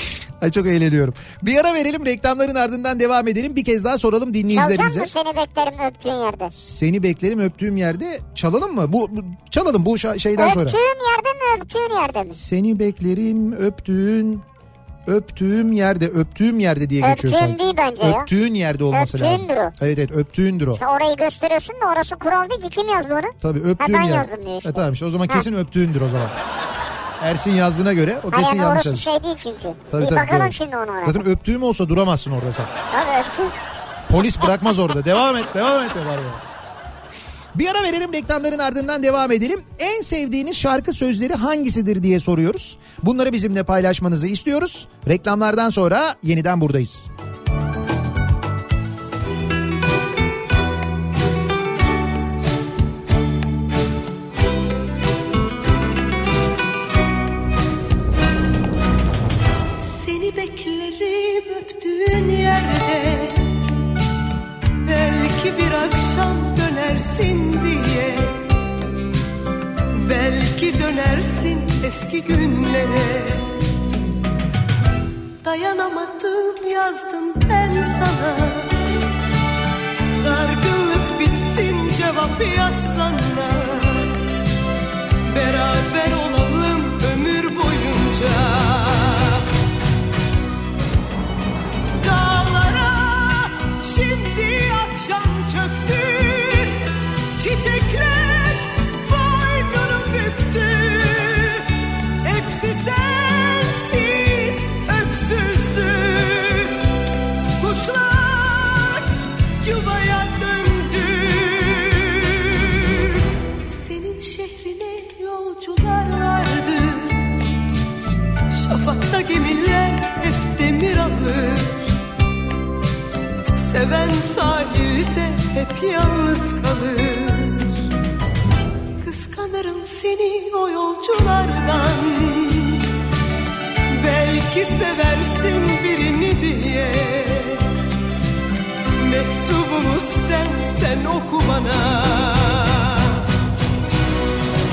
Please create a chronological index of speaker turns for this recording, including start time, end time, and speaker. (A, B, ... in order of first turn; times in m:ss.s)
0:00.4-0:05.1 A
0:04.5-0:06.5 B
0:06.5-0:10.8 A
0:10.4-0:12.4 B
0:12.3-0:14.4 A
0:15.0-0:20.8 A
0:17.0-0:18.3 B
0:18.9-0:19.7 B
0:20.8-0:25.4 B
0:23.4-0:26.3 A
0:27.2-0:29.1 A
0:28.3-0:31.2 B
0:29.9-0:32.7 A
0:32.9-0:33.5 B
0:34.1-0:36.4 A
0:37.5-0:47.1 A
0:59.8-1:03.5 C
1:04.8-1:08.4 C
1:09.9-1:13.6 C
1:15.4-1:18.7 C
1:20.2-1:24.2 C
1:25.3-1:29.5 C
1:32.0-1:46.8 C
1:47.6-1:49.1 C
1:49.6-1:57.4 C
1:58.5-2:02.0 C
2:03.5-2:07.9 C
2:09.0-2:12.9 C
2:13.9-2:17.7 C
2:19.0-2:23.2 C